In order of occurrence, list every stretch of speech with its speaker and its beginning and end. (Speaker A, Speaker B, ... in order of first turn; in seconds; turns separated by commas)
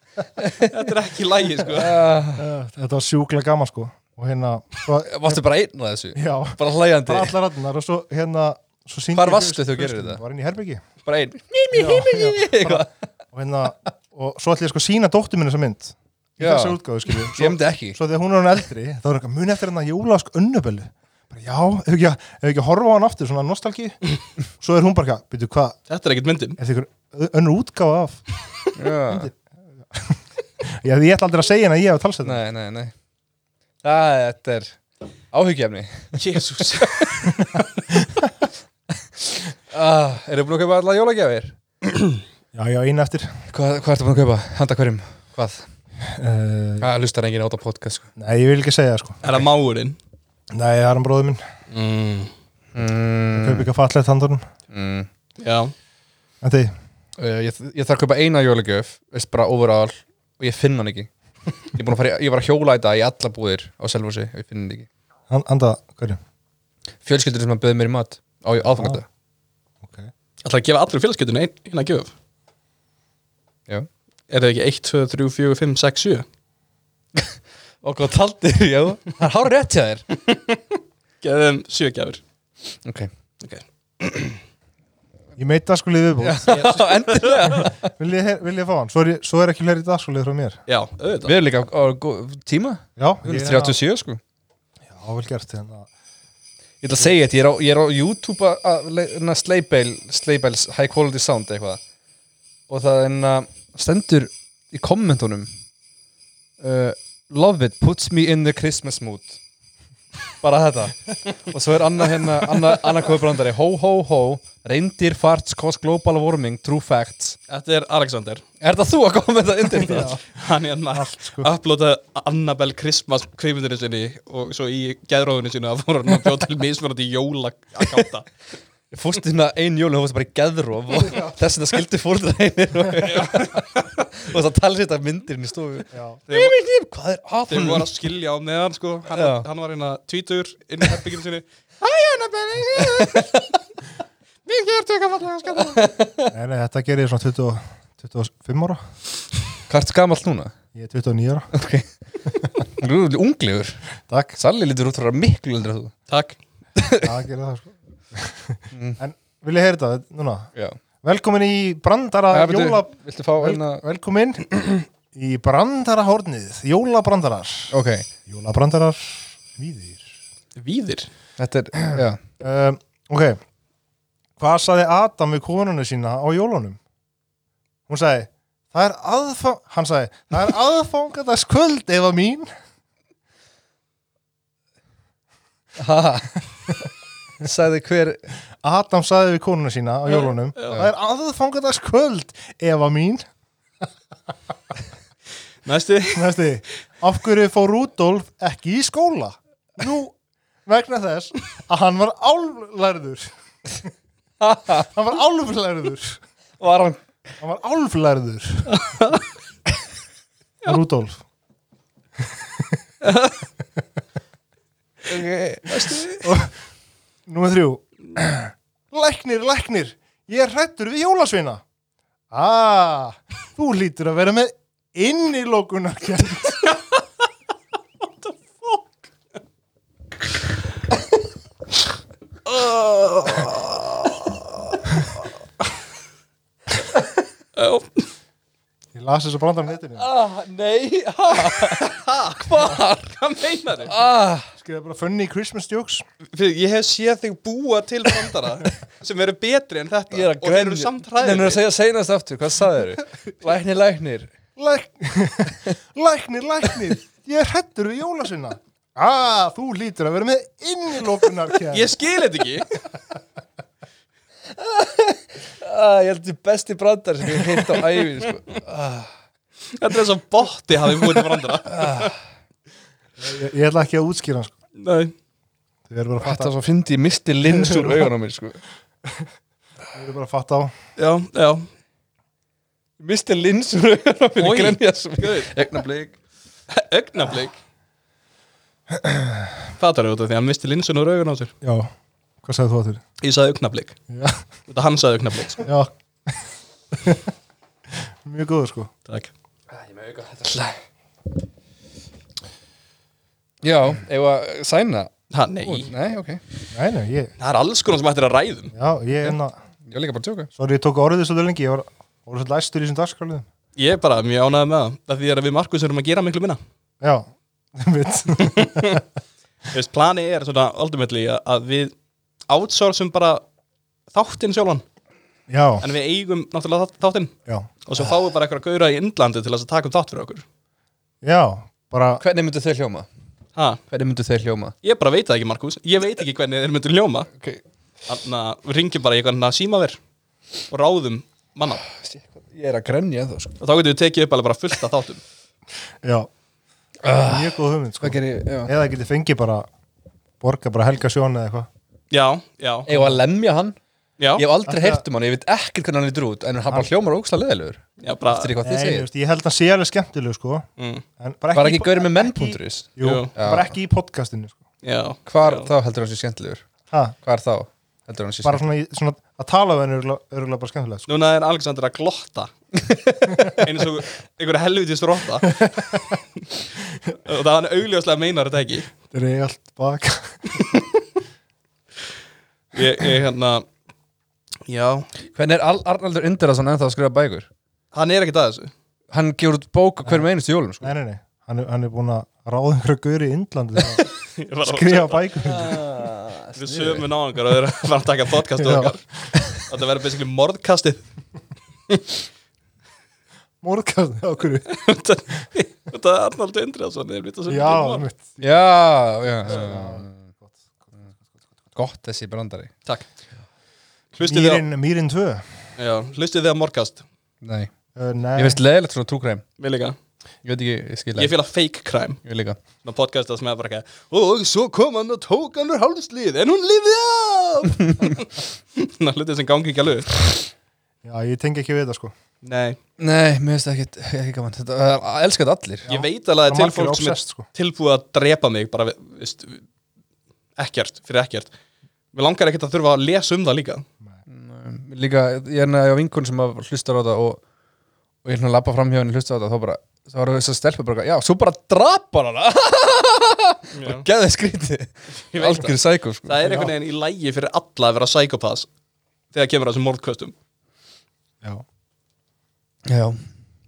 Speaker A: 0.6-1.9, Speaker B: 1.7-2.5, Speaker C: 2.4-5.4, Speaker B: 5.0-7.3, Speaker C: 6.1-10.8, Speaker B: 9.1-10.2, Speaker B: 11.1-12.9, Speaker C: 11.7-24.0, Speaker B: 16.4-18.0, Speaker C: 24.6-25.8, Speaker A: 25.9-26.6, Speaker C: 26.6-28.2, Speaker B: 28.7-29.3, Speaker C: 29.1-29.4, Speaker C: 29.9-32.4, Speaker B: 32.2-32.9, Speaker B: 33.8-34.8, Speaker B: 35.3-36.4, Speaker A: 36.2-37.3, Speaker B: 37.0-37.3, Speaker C: 37.4-38.2, Speaker B: 39.3-41.5, Speaker C: 42.5-43.4, Speaker B: 43.5-45.7, Speaker C: 46.0-46.9, Speaker B: 46.8-48.1, Speaker C: 48.2-49.4, Speaker A: 49.2-50.0, Speaker C: 50.5-51.4, Speaker A: 51.7-52.3, Speaker B: 52.7-53.7, Speaker C: 53.3-54.5, Speaker B: 54.7-55.1, Speaker A: 55.4-55.7, Speaker C: 56.4-56.7, Speaker B: 57.2-61.1, Speaker B: 61.6-64.9, Speaker C: 65.3-66.2, Speaker B: 67.0-69.0, Speaker C: 68.6-69.0, Speaker C: 69.8-70.1, Speaker A: 70.4-72.1, Speaker A: 74.3-76.2, Speaker B: 77.1-80.0, Speaker A: 80.3-80.6, Speaker A: 81.2-82.2, Speaker B: 82.8-83.1, Speaker A: 83.4-84.4, Speaker C: 85.4-86.7, Speaker B: 86.2-87.9, Speaker A: 86.5-87.7, Speaker C: 87.5-90.6, Speaker A: 90.7-91.3, Speaker B: 91.2-94.2, Speaker C: 93.0-93.8, Speaker C: 94.9-95.9, Speaker B: 96.8-101.8, Speaker B: 102.7-105.5, Speaker B: 106.6-109.4, Speaker B: 110.4-117.4, Speaker A: 117.5-118.4, Speaker B: 118.6-120.2, Speaker C: 119.7-121.5, Speaker A: 120.3-128.3, Speaker B: 128.9-137.9, Speaker A: 133.0-134.0, Speaker C: 135.9-136.2, Speaker A: 136.3-136.6, Speaker A: 137.5-143.3, Speaker B: 139.1-139.5, Speaker B: 142.8-143.4, Speaker A: 144.4-145.8, Speaker B: 145.7-146.3, Speaker C: 146.3-148.8, Speaker B: 149.7-150.5, Speaker C: 150.7-151.5, Speaker B: 151.5-151.9, Speaker B: 152.6-155.9, Speaker C: 154.1-154.4, Speaker A: 156.1-156.4, Speaker B: 156.8-157.1, Speaker C: 157.0-160.5, Speaker B: 158.7-159.0, Speaker C: 161.0-167.7, Speaker B: 162.3-163.8, Speaker B: 167.7-168.1, Speaker C: 168.3-170.2, Speaker A: 170.6-171.1, Speaker B: 171.4-172.2, Speaker C: 171.9-173.4, Speaker C: 174.4-176.8, Speaker C: 177.9-182.5, Speaker B: 185.8-186.4, Speaker B: 187.4-188.2, Speaker C: 188.6-193.3, Speaker A: 190.1-190.8, Speaker A: 195.6-196.2, Speaker C: 196.1-200.1, Speaker C: 200.7-203.9, Speaker B: 204.4-204.9, Speaker C: 204.7-206.2, Speaker B: 206.6-207.0, Speaker C: 207.4-208.7, Speaker A: 208.7-209.2, Speaker C: 210.6-211.2, Speaker C: 212.2-212.8, Speaker A: 213.0-213.4, Speaker B: 215.1-216.1, Speaker A: 215.7-216.2, Speaker C: 216.2-216.6, Speaker C: 217.3-221.6, Speaker C: 222.3-226.7, Speaker A: 232.5-234.2, Speaker A: 237.6-238.1, Speaker C: 238.9-240.1, Speaker B: 240.0-243.1, Speaker A: 241.5-243.9, Speaker B: 243.8-244.5, Speaker C: 244.6-246.0, Speaker A: 246.3-251.6, Speaker B: 250.1-254.3, Speaker C: 254.6-261.9, Speaker A: 261.7-262.8, Speaker B: 264.6-269.1, Speaker A: 269.7-272.1, Speaker B: 271.7-272.1, Speaker C: 273.2-274.5, Speaker A: 274.8-275.1, Speaker C: 275.9-276.5, Speaker B: 276.2-278.6, Speaker C: 277.4-278.1, Speaker C: 279.9-280.7, Speaker A: 281.0-281.7, Speaker B: 283.0-286.1, Speaker A: 284.4-285.5, Speaker A: 286.7-287.6, Speaker C: 288.9-289.5, Speaker A: 289.8-291.5, Speaker C: 291.6-291.9, Speaker C: 292.4-293.0, Speaker A: 293.2-294.0, Speaker C: 294.1-294.4, Speaker A: 294.7-295.7, Speaker C: 295.6-297.3, Speaker C: 298.2-298.9, Speaker B: 299.7-300.8, Speaker B: 303.6-305.1, Speaker A: 305.3-305.9, Speaker B: 305.6-306.4, Speaker C: 306.7-307.3, Speaker A: 307.4-308.7, Speaker C: 308.7-309.6, Speaker B: 309.9-310.5, Speaker C: 310.6-313.5, Speaker A: 313.8-316.6, Speaker C: 317.0-319.0, Speaker A: 318.4-319.0, Speaker A: 319.7-321.9, Speaker A: 322.5-323.4, Speaker A: 324.1-324.8, Speaker C: 325.5-325.9, Speaker A: 325.8-327.3, Speaker A: 327.9-330.4, Speaker C: 331.2-332.2, Speaker B: 332.2-333.1, Speaker A: 333.6-333.8, Speaker B: 333.9-334.7, Speaker A: 334.8-337.3, Speaker A: 338.1-340.0, Speaker A: 340.7-341.8, Speaker B: 341.9-343.6, Speaker A: 343.6-345.2, Speaker C: 346.0-346.3, Speaker B: 347.0-348.7, Speaker C: 347.1-349.7, Speaker C: 350.4-351.7, Speaker A: 352.1-352.9, Speaker B: 352.9-353.8, Speaker C: 352.9-353.2, Speaker B: 354.4-359.1, Speaker C: 354.7-355.0, Speaker A: 358.0-358.5, Speaker C: 358.6-360.7, Speaker A: 360.8-361.1, Speaker C: 361.2-364.6, Speaker B: 361.6-363.7, Speaker A: 363.0-363.3, Speaker A: 364.8-365.7, Speaker B: 365.3-366.7, Speaker C: 366.9-367.2, Speaker B: 367.2-368.6, Speaker C: 368.4-371.1, Speaker A: 371.1-372.5, Speaker A: 373.4-375.5, Speaker C: 375.5-376.2, Speaker A: 377.2-378.9, Speaker C: 379.1-380.8, Speaker A: 382.7-383.7, Speaker A: 384.7-385.1, Speaker B: 385.4-387.5, Speaker A: 387.9-388.7, Speaker B: 389.1-390.9, Speaker C: 390.8-394.1, Speaker A: 394.2-395.7, Speaker C: 394.6-395.8, Speaker B: 395.4-397.1, Speaker A: 396.6-401.1, Speaker C: 398.6-399.0, Speaker C: 403.6-404.7, Speaker A: 404.7-408.1, Speaker C: 407.5-408.5, Speaker B: 408.4-410.2, Speaker C: 409.4-411.1, Speaker A: 409.5-409.7, Speaker B: 411.7-412.7, Speaker A: 414.2-414.6, Speaker C: 414.2-415.5, Speaker A: 415.8-417.0, Speaker B: 417.4-417.7, Speaker C: 417.9-418.6, Speaker B: 418.4-419.4, Speaker A: 419.6-419.9, Speaker B: 420.4-421.4, Speaker A: 421.2-422.2, Speaker B: 422.2-422.6, Speaker A: 422.8-430.4, Speaker C: 431.0-432.1, Speaker A: 432.4-432.8, Speaker B: 433.0-435.9, Speaker C: 435.9-437.4, Speaker A: 435.9-439.7, Speaker A: 440.6-441.5, Speaker A: 442.1-443.9, Speaker B: 444.3-447.4, Speaker B: 448.2-456.5, Speaker A: 453.7-454.1, Speaker A: 455.3-458.7, Speaker C: 456.4-456.7, Speaker A: 459.3-460.3, Speaker B: 462.9-463.2